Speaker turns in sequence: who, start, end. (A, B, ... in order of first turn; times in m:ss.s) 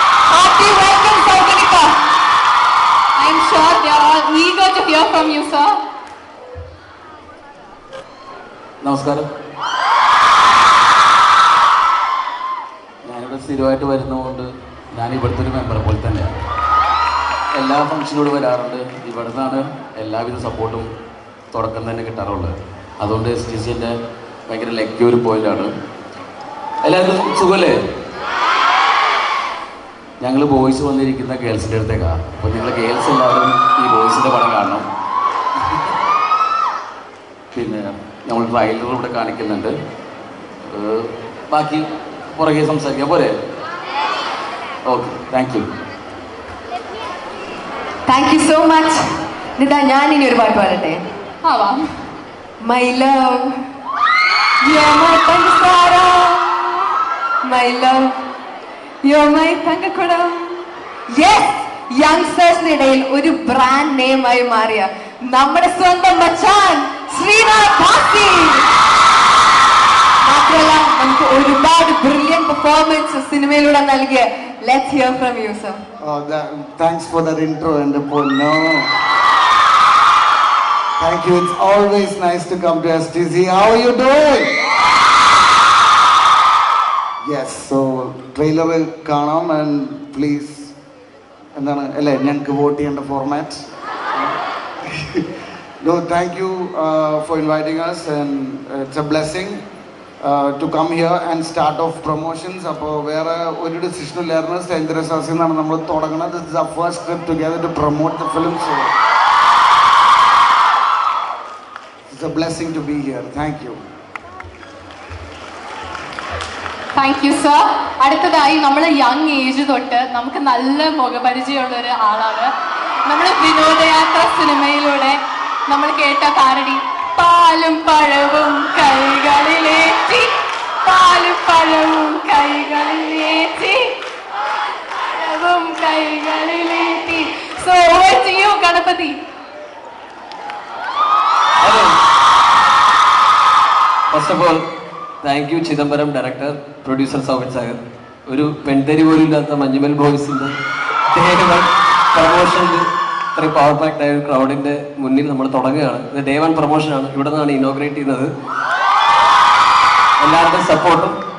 0:00.3-0:01.9 A
0:03.2-0:05.8 A
0:08.8-0:09.3 B
0:13.0-0:16.3 B
0:17.6-0:20.9 B
0:21.5-0:24.0 B
0:24.5-0:25.7 B
0:26.8-0:27.8 B
0:30.2-0:34.9 B
0:37.5-0:39.8 B
0:40.7-0:43.4 B
0:44.9-0:45.7 B
0:48.1-0:49.0 C
0:49.6-0:51.0 C
0:51.4-0:51.9 A
0:52.6-0:53.5 C
0:54.6-0:56.8 C
0:57.4-0:58.2 C
0:59.0-1:08.7 C
1:10.2-1:15.8 C
1:16.0-1:18.9 D
1:21.0-1:24.5 D
1:27.2-1:30.7 D
1:31.6-1:33.6 D
1:35.8-1:39.6 D
1:40.2-1:48.9 D
1:52.1-1:53.8 D
1:57.0-2:02.5 A
2:03.1-2:10.3 A
2:10.8-2:13.9 A
2:15.2-2:19.2 A
2:21.6-2:21.9 E
2:24.1-2:24.6 E
2:25.2-2:30.5 E
2:31.1-2:38.3 E
2:40.2-2:41.2 E